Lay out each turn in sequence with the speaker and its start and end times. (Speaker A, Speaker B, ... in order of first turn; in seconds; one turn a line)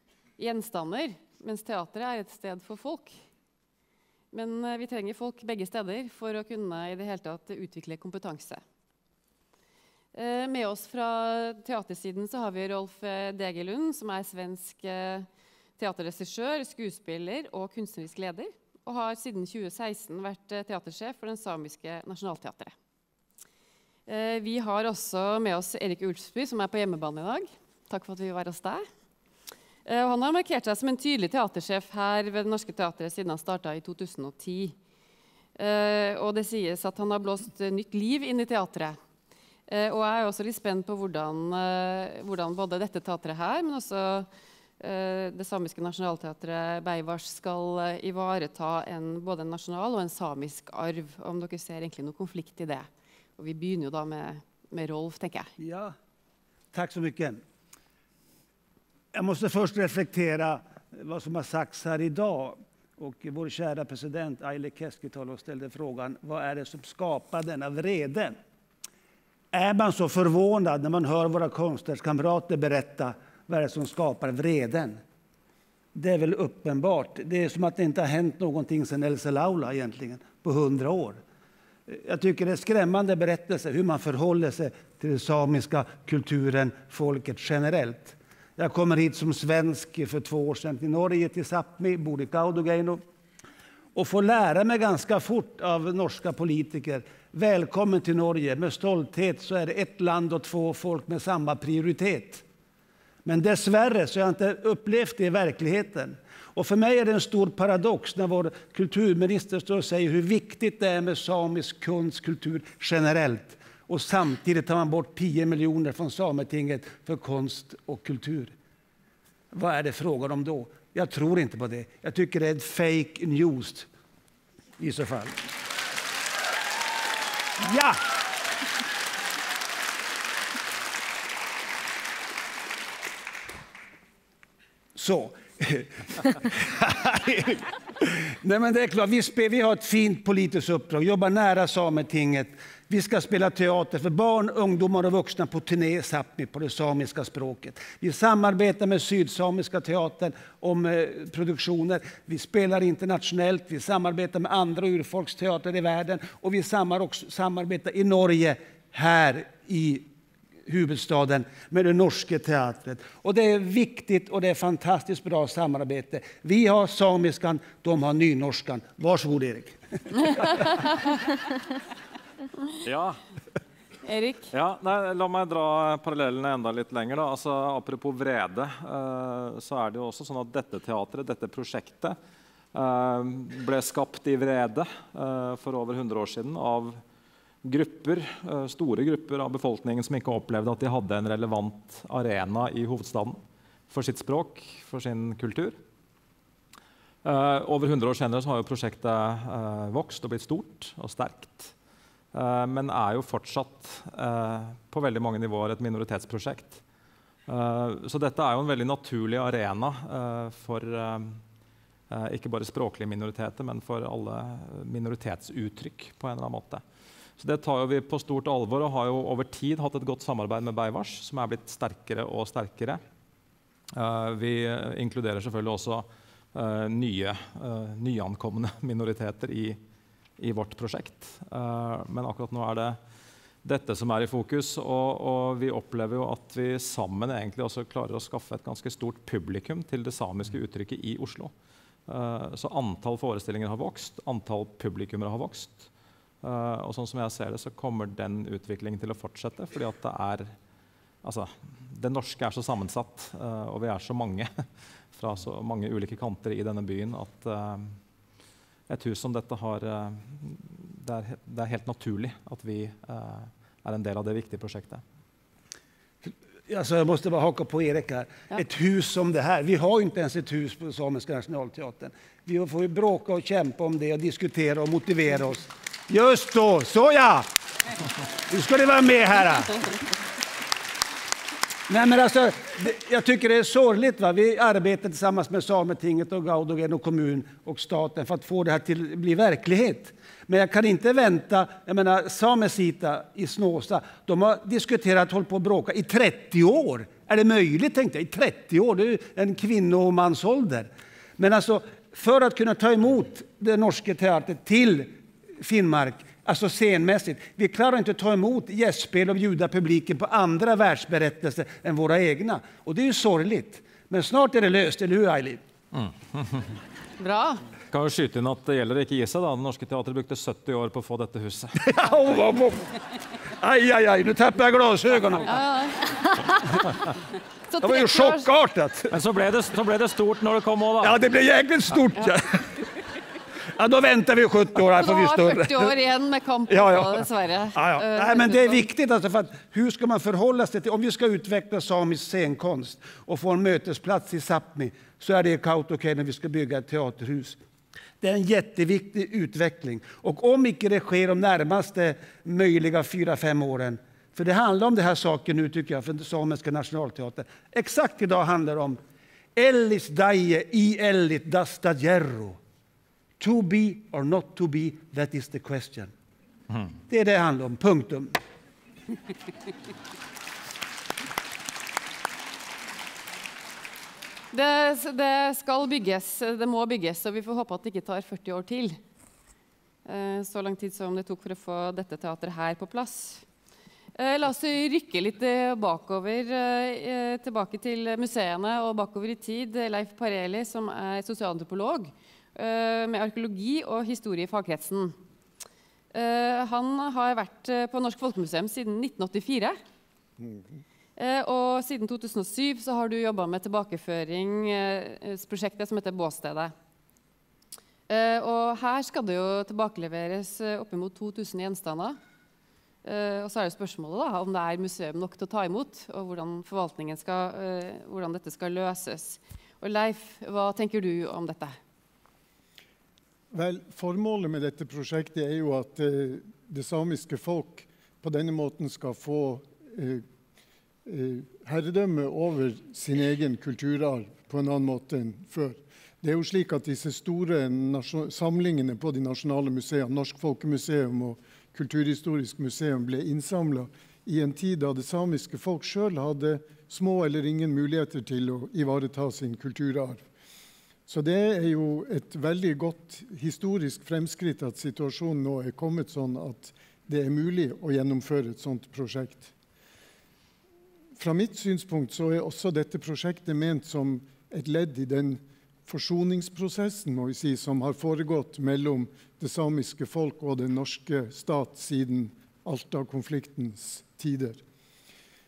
Speaker A: 0.4-3.1
Speaker A: 4.3-8.6
Speaker A: 10.1-15.3
Speaker A: 15.8-22.8
Speaker A: 24.1-28.9
Speaker A: 29.9-34.8
Speaker A: 35.6-39.0
Speaker A: 39.7-44.3
Speaker A: 44.8-55.5
Speaker B: 55.6-56.0
Speaker B: 56.7-57.4
Speaker B: 59.1-68.4
Speaker B: 69.5-75.0
Speaker B: 76.0-81.2
Speaker B: 81.9-93.0
Speaker B: 94.0-102.4
Speaker B: 103.2-118.5
Speaker B: 119.5-123.9
Speaker B: 124.8-125.4
Speaker B: 127.6-128.0
Speaker B: 134.9-160.1
Speaker B: 160.7-170.5
Speaker C: 172.8-173.2
Speaker A: 174.0-174.5
Speaker C: 174.5-182.2
Speaker C: 182.7-187.0
Speaker C: 187.6-193.4
Speaker C: 193.9-195.8
Speaker C: 197.2-201.7
Speaker C: 202.3-206.8
Speaker C: 207.5-211.4
Speaker C: 212.1-216.8
Speaker C: 217.4-223.0
Speaker C: 223.9-229.8
Speaker C: 230.4-233.0
Speaker C: 233.6-241.5
Speaker C: 242.1-245.9
Speaker C: 246.4-250.6
Speaker C: 251.2-254.6
Speaker C: 255.1-258.0
Speaker C: 258.9-265.0
Speaker B: 266.2-277.5
Speaker B: 278.5-280.0
Speaker B: 281.9-315.6
Speaker C: 315.9-316.7
Speaker A: 317.2-317.6
Speaker C: 317.9-321.8
Speaker B: 321.8-323.0
Speaker B: 323.6-325.6
Speaker A: 325.5-326.2
Speaker A: 327.7-328.5
Speaker B: 327.8-329.2
Speaker C: 329.1-331.2
Speaker B: 331.0-332.9
Speaker B: 333.8-335.9
Speaker A: 335.0-338.9
Speaker B: 336.7-347.6
Speaker B: 348.2-359.0
Speaker B: 359.6-362.6
Speaker B: 363.4-366.1
Speaker B: 367.1-368.3
Speaker A: 374.5-379.0
Speaker A: 380.1-383.4
Speaker A: 384.2-395.2
Speaker A: 396.1-399.8
Speaker D: 400.4-400.8
Speaker A: 401.2-406.7
Speaker A: 408.1-412.2
Speaker A: 413.0-421.8
Speaker D: 423.5-430.2
Speaker D: 431.1-450.2
Speaker D: 451.1-459.5
Speaker D: 461.2-474.6